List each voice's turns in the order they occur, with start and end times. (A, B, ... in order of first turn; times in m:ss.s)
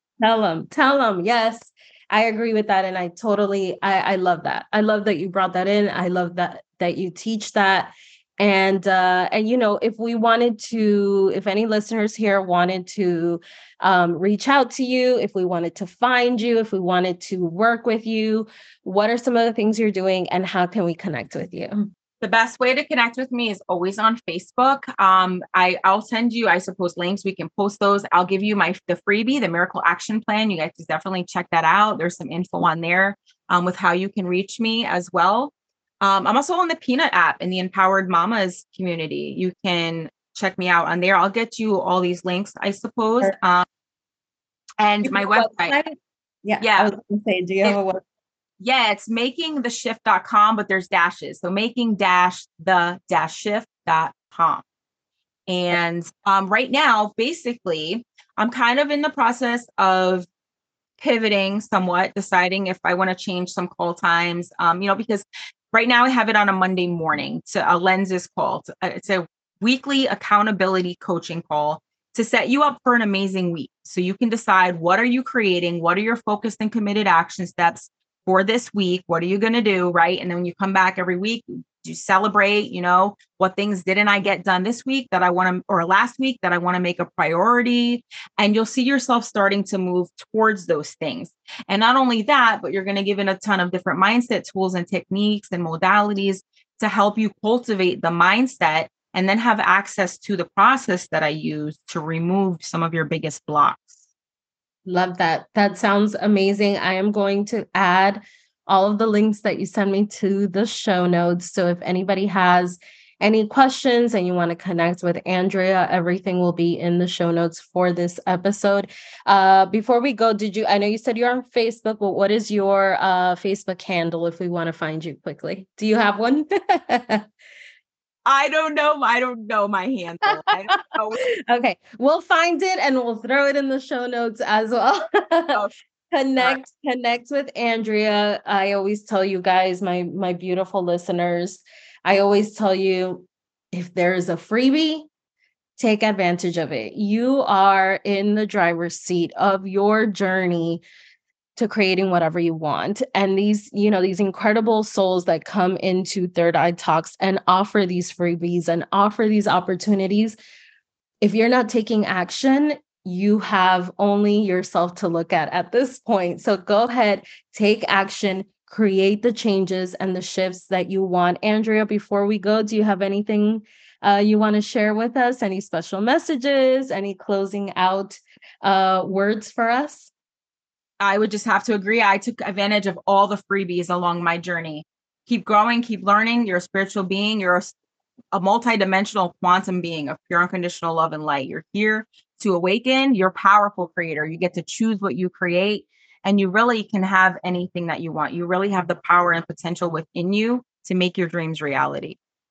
0:00.2-0:21.9 A
0:22.2-0:43.6 B
0:44.8-0:45.7 B
0:45.0-0:48.0 A
0:46.6-0:46.9 B
0:48.6-0:54.6 B
0:55.5-1:00.3 B
1:01.0-1:44.0 B
1:44.8-2:07.2 A
2:08.2-2:11.2 B
2:11.5-2:15.6 A
2:16.1-2:25.1 A
2:25.8-2:30.8 A
2:31.6-2:40.4 A
2:41.2-3:00.1 A
3:01.0-3:07.7 B
3:08.3-3:22.2 B